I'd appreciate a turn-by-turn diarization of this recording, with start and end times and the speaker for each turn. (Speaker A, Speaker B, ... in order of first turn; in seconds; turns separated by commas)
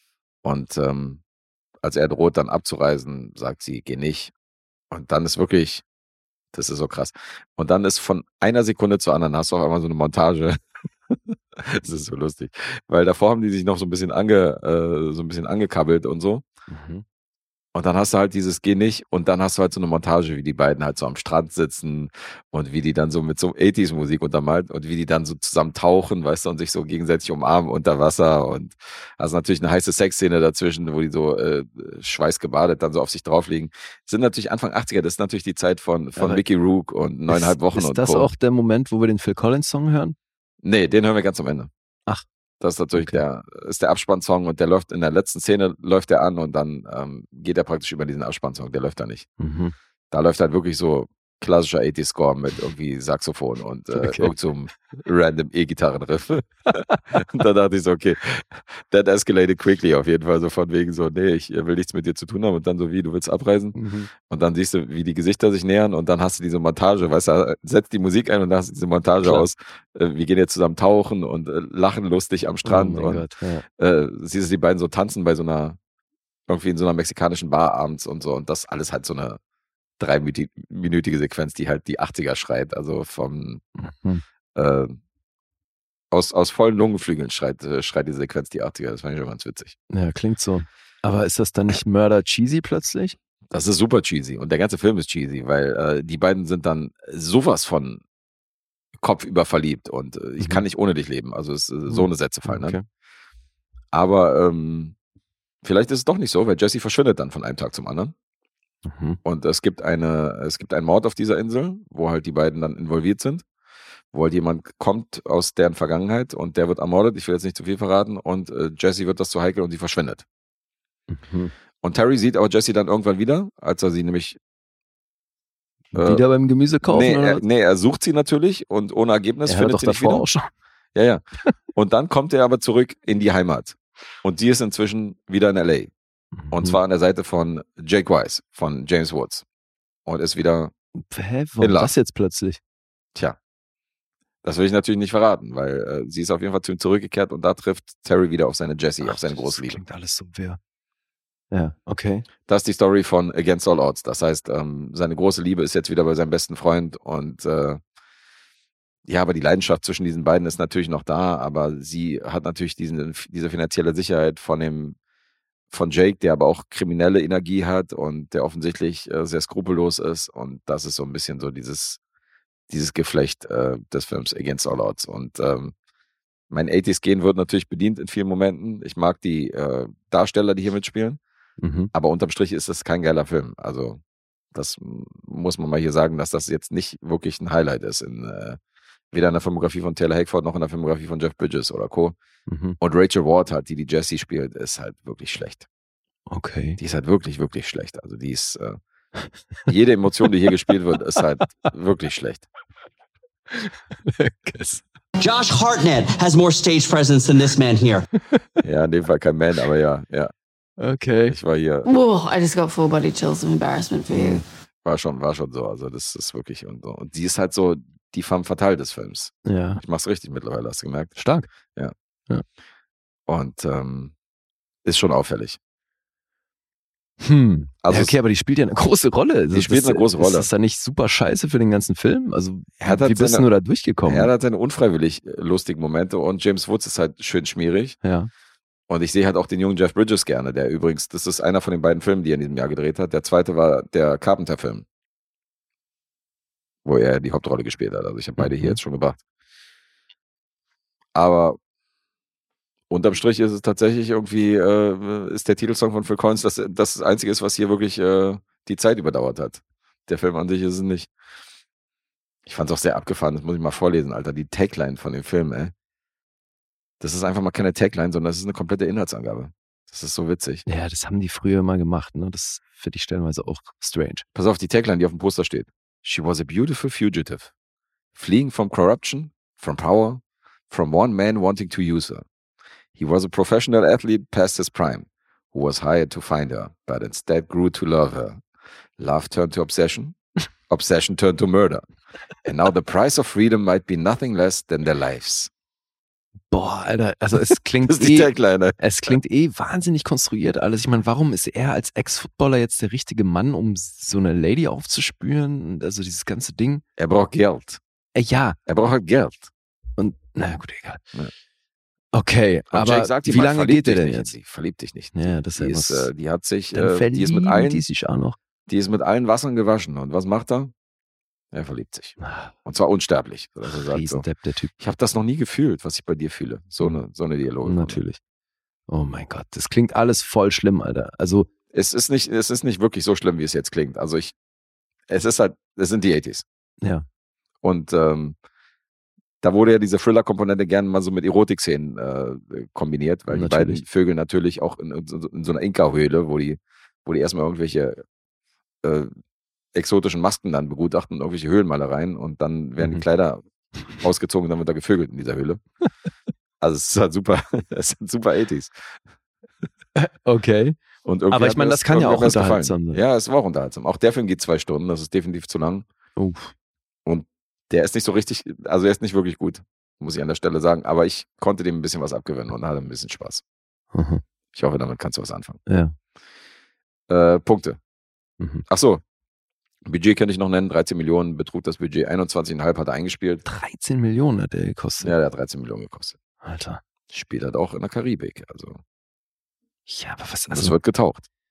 Speaker A: 0.4-1.2, Speaker A: 1.8-4.3, Speaker A: 4.9-5.8, Speaker A: 6.5-16.4, Speaker B: 16.7-17.0, Speaker A: 17.7-38.3, Speaker B: 36.1-36.4, Speaker B: 37.3-40.1, Speaker A: 40.6-41.7, Speaker A: 42.6-49.3, Speaker B: 42.9-43.2, Speaker B: 49.4-49.7, Speaker A: 50.1-75.8, Speaker B: 53.9-54.3, Speaker B: 63.7-64.1, Speaker B: 72.6-73.6, Speaker A: 76.5-79.4, Speaker A: 80.0-83.6, Speaker B: 83.8-84.2, Speaker A: 84.5-85.0, Speaker A: 86.1-89.8, Speaker B: 89.9-93.2, Speaker A: 93.5-98.0, Speaker A: 99.0-102.8, Speaker B: 101.9-102.8, Speaker A: 103.9-104.9, Speaker A: 105.6-108.1, Speaker B: 108.8-109.2, Speaker A: 109.2-113.4, Speaker A: 114.1-120.2, Speaker B: 121.1-121.5, Speaker A: 121.8-124.4, Speaker B: 125.9-127.4, Speaker A: 125.9-126.2, Speaker A: 126.8-130.2, Speaker B: 129.4-130.5, Speaker A: 130.9-131.2, Speaker A: 131.7-135.9, Speaker B: 136.3-136.8, Speaker A: 136.5-139.4, Speaker A: 140.1-140.7, Speaker B: 141.0-142.6, Speaker A: 141.6-141.9, Speaker A: 144.4-149.8, Speaker B: 149.0-150.6, Speaker B: 151.5-152.2, Speaker A: 152.5-157.8, Speaker A: 159.1-164.9, Speaker A: 165.7-172.0, Speaker A: 172.7-175.7, Speaker A: 176.5-181.2, Speaker B: 181.6-181.9, Speaker A: 181.9-184.0, Speaker A: 184.5-188.6, Speaker A: 189.1-192.2, Speaker B: 192.5-192.8, Speaker A: 192.8-195.7, Speaker B: 196.3-196.8, Speaker A: 196.8-198.8, Speaker A: 199.7-202.5, Speaker B: 203.6-204.8, Speaker C: 205.2-208.0, Speaker A: 208.6-210.3, Speaker B: 210.8-211.4, Speaker A: 211.3-211.9, Speaker D: 212.0-214.0, Speaker A: 214.1-221.2, Speaker B: 219.4-219.8, Speaker B: 221.2-221.5, Speaker A: 223.3-224.1, Speaker A: 224.8-225.6, Speaker B: 227.2-234.3, Speaker A: 227.8-228.1, Speaker A: 229.5-230.5, Speaker A: 232.8-233.4, Speaker A: 234.1-238.0, Speaker B: 238.0-238.3, Speaker A: 238.9-244.8, Speaker A: 246.8-249.2, Speaker B: 248.4-248.8, Speaker A: 251.1-251.6, Speaker A: 252.9-261.1, Speaker A: 262.4-265.7, Speaker A: 267.0-270.6, Speaker B: 270.6-274.2, Speaker A: 274.3-277.5, Speaker A: 278.1-282.2, Speaker A: 282.9-288.4, Speaker A: 289.0-290.2, Speaker A: 290.7-291.8, Speaker A: 292.4-295.5, Speaker B: 296.5-306.8, Speaker A: 297.9-299.1, Speaker A: 307.0-307.8, Speaker B: 308.1-308.6, Speaker A: 308.7-309.5, Speaker B: 310.0-311.0, Speaker B: 312.1-314.3, Speaker A: 312.7-317.8, Speaker B: 315.1-316.1, Speaker B: 316.7-318.4, Speaker A: 318.7-320.7, Speaker A: 321.5-324.2, Speaker B: 322.2-322.5, Speaker B: 323.9-324.7, Speaker A: 324.8-328.0, Speaker B: 327.6-328.2, Speaker B: 328.9-331.5, Speaker A: 331.7-334.3, Speaker A: 335.1-336.4, Speaker A: 337.6-338.4, Speaker A: 339.4-348.0, Speaker B: 343.3-343.8, Speaker A: 348.8-349.1, Speaker A: 349.7-353.4, Speaker A: 354.0-355.6, Speaker A: 356.6-359.0, Speaker B: 360.0-360.8, Speaker A: 361.0-365.8, Speaker B: 361.3-363.0, Speaker B: 366.2-366.5, Speaker A: 367.1-373.4, Speaker B: 373.9-374.2, Speaker A: 374.5-375.6, Speaker B: 375.7-375.9, Speaker A: 377.1-377.8, Speaker A: 378.7-379.0, Speaker A: 379.9-383.4, Speaker B: 383.4-385.1, Speaker A: 385.0-386.2, Speaker B: 386.4-386.8, Speaker A: 387.1-388.8, Speaker B: 389.9-390.7, Speaker A: 390.5-391.2